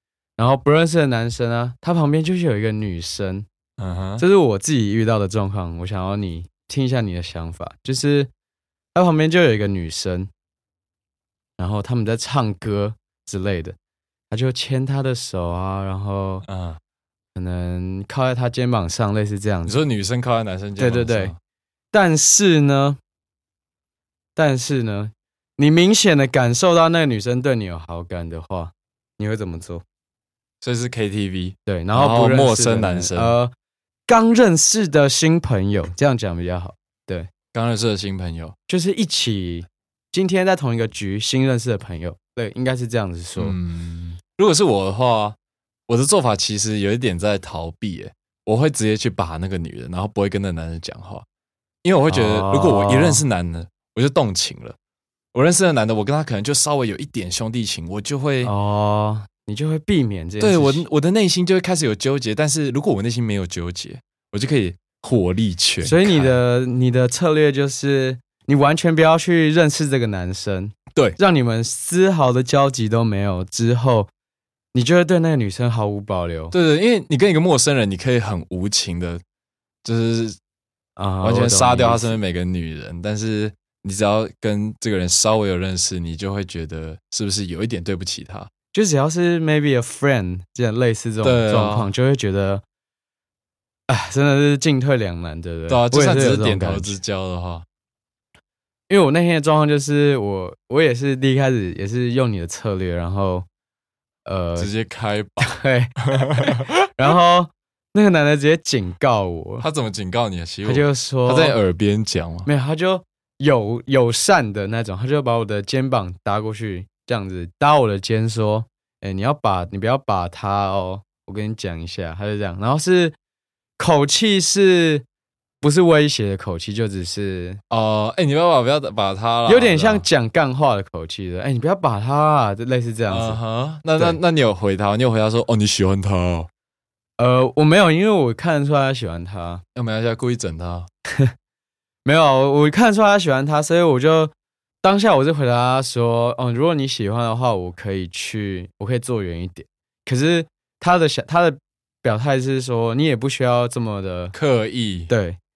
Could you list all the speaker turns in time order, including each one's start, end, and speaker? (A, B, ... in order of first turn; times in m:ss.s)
0:00.4-0:03.5 A
0:03.8-0:04.2 B
0:04.2-0:08.3 A
0:09.0-0:10.3 A
0:11.6-0:13.8 A
0:14.3-0:16.4 A
0:16.5-0:16.8 B
0:17.4-0:19.8 A
0:19.7-0:21.4 B
0:20.8-0:21.3 A
0:21.9-0:23.0 A
0:24.4-0:29.8 A
0:30.6-0:33.4 B
0:31.7-0:33.5 A
0:34.1-0:37.3 A
0:37.5-0:38.6 B
0:38.7-0:43.6 A
0:43.4-0:45.4 B
0:45.9-0:51.2 B
0:51.8-0:54.8 B
0:52.1-0:53.2 A
0:55.3-0:58.5 B
0:58.4-1:00.8 A
1:00.4-1:06.4 B
1:05.8-1:14.1 A
1:10.9-1:11.2 B
1:14.7-1:16.5 A
1:16.5-1:19.2 B
1:19.8-1:20.4 B
1:21.0-1:22.2 A
1:21.2-1:28.5 B
1:28.7-1:32.6 A
1:31.2-1:31.9 B
1:33.9-1:37.0 A
1:35.7-1:37.6 B
1:38.9-1:43.5 A
1:44.3-1:44.7 A
1:44.6-1:45.6 B
1:45.4-1:49.7 A
1:46.1-1:46.7 B
1:49.6-1:52.5 B
1:50.6-1:51.6 A
1:52.5-2:03.2 A
2:03.8-2:05.1 A
2:05.6-2:07.6 A
2:07.7-2:10.1 B
2:09.5-2:13.4 A
2:13.1-2:16.5 B
2:17.2-2:19.6 A
2:19.8-2:20.9 B
2:22.0-2:34.4 A
2:34.3-2:35.1 B
2:35.1-2:35.4 A